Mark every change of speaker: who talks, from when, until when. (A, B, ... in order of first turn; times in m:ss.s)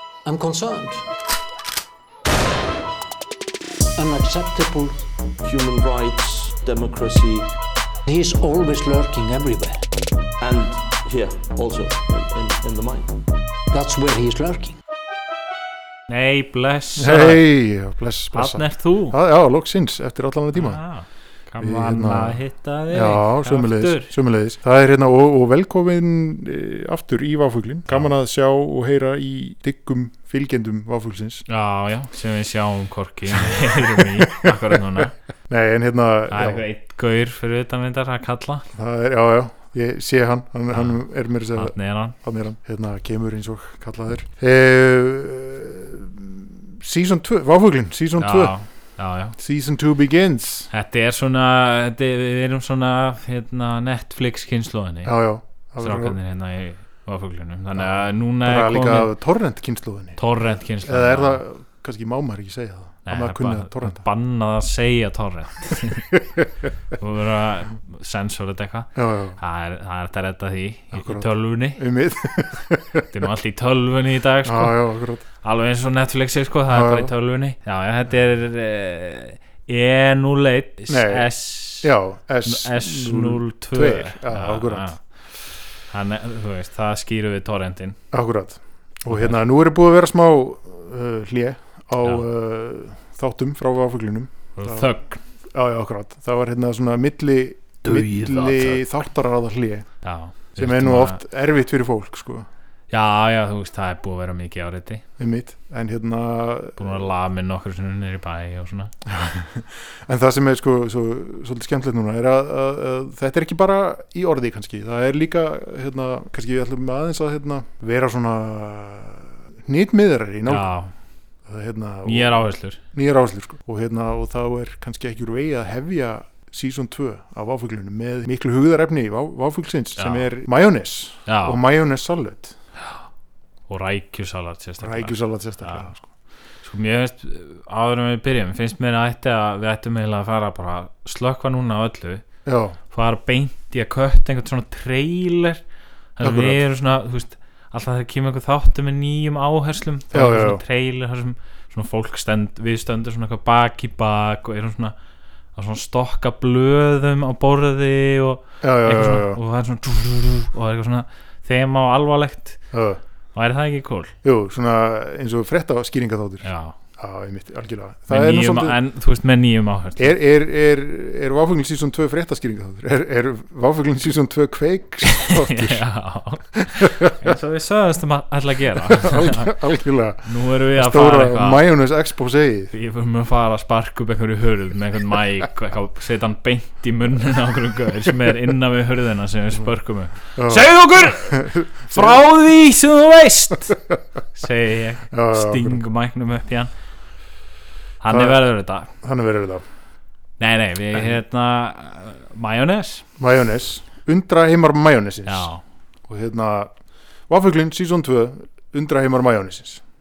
0:00.2-0:01.0 A
0:04.0-0:05.0 A
0:05.4-0:07.5 B
0:08.1-0:09.8 A
0:10.4-0:13.2 B
0:13.7-0:14.8 A
0:16.1-0:17.4 C
0:17.0-0:20.8 D
0:18.3-0:19.2 C
0:20.5-0:24.1 C
0:21.6-0:31.4 D
0:31.5-0:35.2 C
0:33.5-0:34.6 D
0:35.5-0:36.6 D
0:36.3-0:38.7 C
0:38.7-0:48.6 D
0:41.6-0:42.2 C
0:48.2-0:49.4 C
0:49.4-0:50.7 D
0:50.7-0:55.1 C
0:55.0-0:56.2 D
0:55.8-0:59.1 C
0:57.8-1:00.2 D
1:00.2-1:01.4 C
1:00.8-1:04.0 D
1:03.1-1:06.2 C
1:06.1-1:06.5 D
1:06.9-1:11.8 C
1:09.0-1:09.4 D
1:10.9-1:13.1 D
1:13.1-1:14.8 C
1:14.4-1:15.2 D
1:15.4-1:21.9 C
1:16.7-1:17.1 D
1:20.9-1:24.9 D
1:22.5-1:25.0 C
1:25.9-1:28.0 C
1:28.1-1:34.9 D
1:29.1-1:29.4 C
1:34.6-1:35.2 C
1:35.5-1:39.9 D
1:37.8-1:38.8 C
1:40.0-1:41.2 C
1:40.6-1:42.5 D
1:42.9-1:45.0 C
1:45.2-1:47.0 D
1:46.8-1:48.9 C
1:49.1-2:00.7 D
2:00.5-2:00.9 C
2:01.4-2:12.6 D
2:02.0-2:02.8 C
2:10.0-2:10.3 C
2:11.3-2:11.6 C
2:13.7-2:15.9 C
2:14.8-2:16.1 D
2:16.6-2:22.2 C
2:22.4-2:22.8 D
2:22.9-2:25.6 C
2:26.2-2:35.0 C
2:26.2-2:26.6 D
2:30.1-2:30.6 D
2:35.6-2:42.6 C
2:38.6-2:39.4 D
2:42.7-2:43.0 D
2:43.3-2:44.1 C
2:44.2-2:46.5 D
2:46.4-2:46.8 C
2:47.0-2:48.8 D
2:48.1-2:50.1 C
2:50.0-2:55.8 D
2:55.1-2:59.5 C
2:56.6-2:57.3 D
2:58.8-3:02.7 D
3:00.2-3:01.7 C
3:02.7-3:13.8 C
3:10.4-3:12.2 D
3:14.4-3:16.7 C
3:15.1-3:15.8 D
3:18.0-3:18.9 C
3:18.1-3:18.4 D
3:19.0-3:19.6 D
3:20.4-3:23.0 C
3:23.2-3:25.5 D
3:25.2-3:25.6 C
3:26.1-3:26.7 D
3:27.3-3:29.8 D